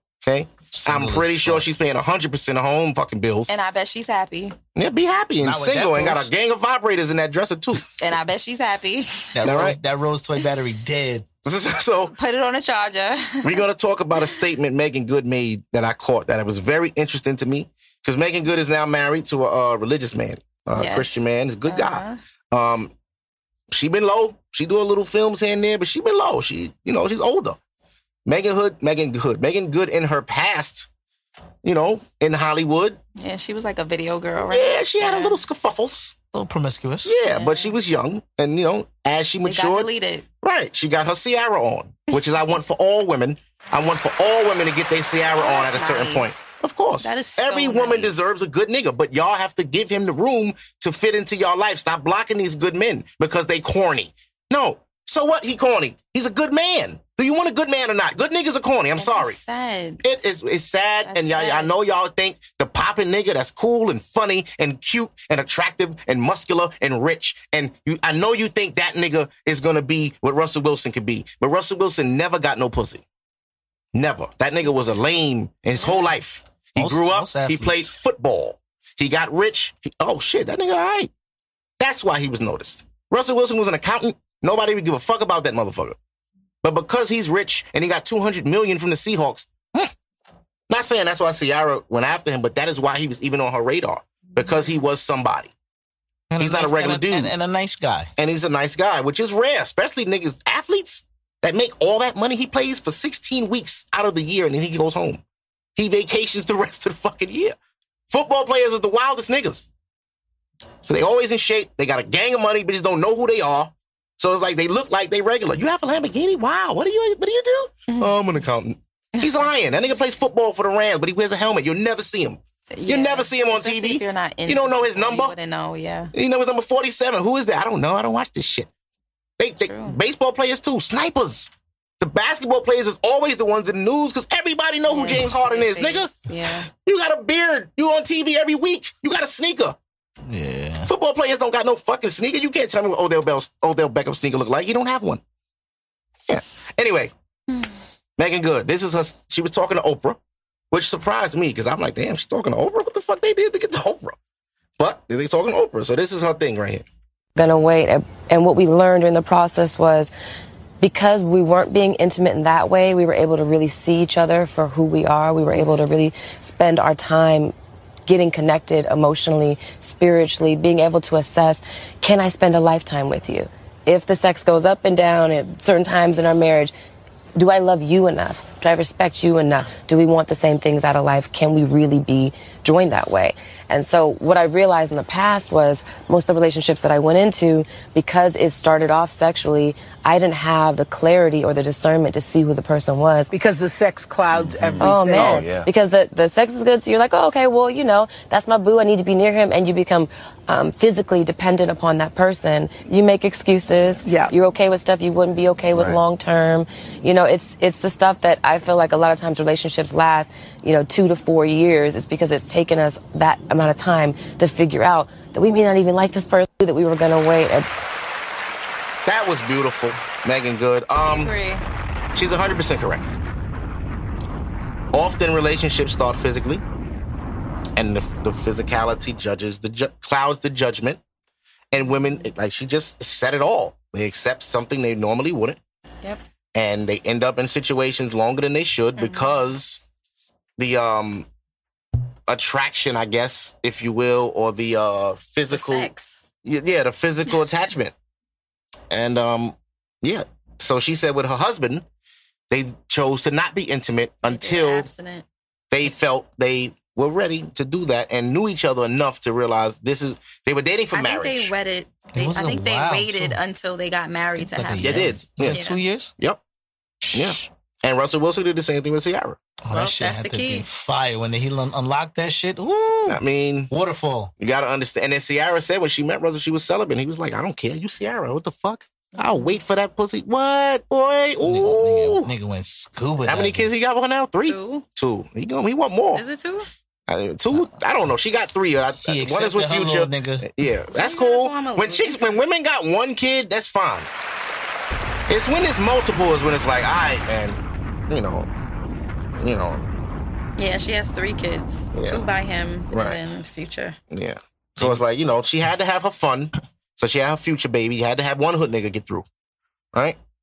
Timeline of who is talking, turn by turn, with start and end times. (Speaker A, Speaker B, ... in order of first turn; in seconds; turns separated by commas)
Speaker A: 0.2-3.5, Speaker B: 0.7-1.7, Speaker C: 3.5-4.6, Speaker A: 4.8-7.9, Speaker B: 5.4-6.3, Speaker C: 8.0-9.3, Speaker B: 9.3-11.3, Speaker A: 9.4-9.8, Speaker A: 11.4-12.2, Speaker C: 12.1-13.6, Speaker A: 13.4-22.9, Speaker C: 20.7-22.2, Speaker A: 23.7-27.6, Speaker A: 28.3-30.9, Speaker A: 31.6-33.0, Speaker C: 33.2-35.4, Speaker A: 34.5-36.1, Speaker B: 36.3-37.1, Speaker A: 37.0-39.9, Speaker C: 37.3-37.8, Speaker C: 39.5-40.3, Speaker A: 40.4-59.4, Speaker C: 45.4-48.2, Speaker C: 59.0-60.0, Speaker A: 60.0-73.0, Speaker C: 61.1-61.8, Speaker A: 73.9-81.1, Speaker C: 75.8-76.1, Speaker B: 76.8-77.9, Speaker A: 81.8-86.0, Speaker A: 86.6-89.9, Speaker A: 90.7-95.5, Speaker C: 94.4-94.7, Speaker B: 96.3-98.1, Speaker A: 96.4-97.3, Speaker A: 98.2-105.2, Speaker A: 105.8-107.6, Speaker A: 108.1-109.7, Speaker A: 110.9-125.3, Speaker C: 119.2-119.5, Speaker C: 122.7-126.1, Speaker A: 126.1-128.7, Speaker A: 129.4-136.1, Speaker C: 129.7-130.0, Speaker C: 134.9-136.7, Speaker A: 136.7-139.8, Speaker B: 140.3-140.9, Speaker A: 140.9-145.2, Speaker A: 146.3-147.1, Speaker A: 148.2-150.2, Speaker A: 150.7-154.2, Speaker A: 154.8-156.8, Speaker D: 157.4-160.1, Speaker D: 160.8-167.5, Speaker D: 168.1-176.7, Speaker D: 177.4-193.3, Speaker E: 193.3-195.7, Speaker D: 194.8-217.7, Speaker E: 204.1-204.3, Speaker A: 219.1-221.3, Speaker C: 220.9-221.6, Speaker A: 222.1-223.2, Speaker A: 224.9-226.6, Speaker A: 227.8-231.0, Speaker A: 231.7-235.6, Speaker C: 231.8-232.3, Speaker A: 236.6-239.8, Speaker C: 239.0-239.4, Speaker A: 240.6-241.3, Speaker A: 242.3-245.9, Speaker C: 245.5-246.2, Speaker A: 246.4-247.9, Speaker A: 248.9-251.8, Speaker A: 252.5-254.9, Speaker C: 254.2-255.2, Speaker A: 255.7-261.5, Speaker C: 260.9-265.8, Speaker B: 262.1-263.4, Speaker B: 264.4-266.1, Speaker A: 264.8-265.6, Speaker B: 267.0-267.3, Speaker A: 267.1-269.4, Speaker B: 269.6-274.3, Speaker C: 269.7-270.7, Speaker A: 273.1-273.7, Speaker A: 274.4-282.3, Speaker B: 281.4-283.7, Speaker A: 283.2-286.2, Speaker C: 284.4-284.9, Speaker C: 286.1-286.7, Speaker A: 287.1-294.1, Speaker B: 287.5-287.8, Speaker B: 289.1-290.5, Speaker C: 290.9-292.4, Speaker A: 295.3-298.5, Speaker A: 299.4-299.9, Speaker C: 300.6-304.0, Speaker A: 301.9-302.2, Speaker A: 302.9-303.2, Speaker A: 304.1-309.3, Speaker B: 304.8-305.0, Speaker A: 309.9-310.2